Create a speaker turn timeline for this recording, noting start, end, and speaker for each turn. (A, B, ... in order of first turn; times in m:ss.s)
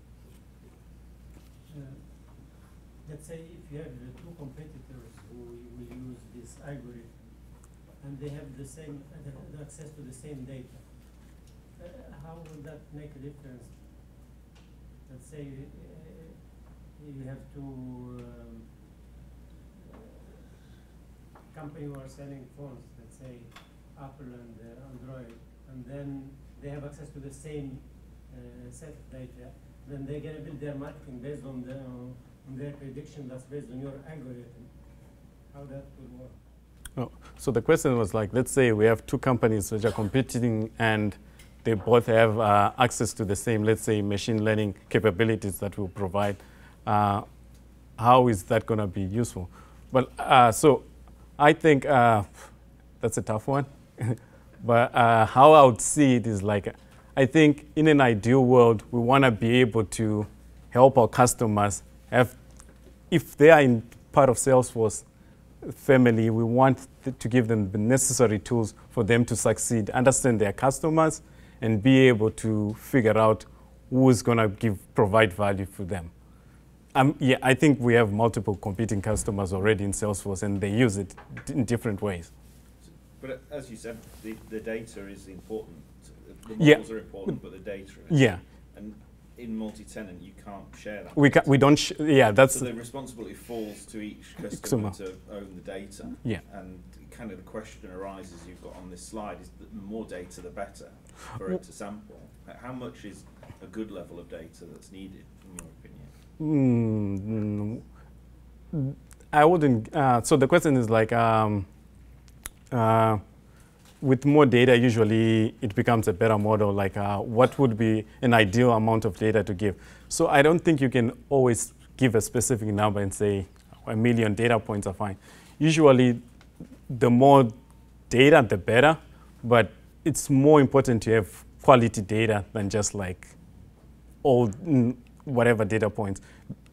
0:01.7-0:14.3 A
0:15.0-0:19.0 A
0:19.7-0:20.6 A
0:21.5-0:34.7 A
0:35.5-0:36.4 A
0:37.0-0:47.2 B
0:48.0-0:50.9 B
0:51.4-0:52.5 B
0:53.0-1:02.4 B
1:03.1-1:05.0 B
1:05.6-1:16.1 B
1:16.9-1:22.3 B
1:22.8-1:31.7 C
1:28.1-1:28.4 B
1:31.2-1:32.7 B
1:32.4-1:46.1 C
1:34.6-1:34.9 B
1:46.4-1:47.8 B
1:48.7-1:51.7 B
1:52.7-1:53.2 B
1:54.0-2:06.2 B
2:06.9-2:07.5 B
2:08.1-2:13.3 B
2:14.2-2:16.2 B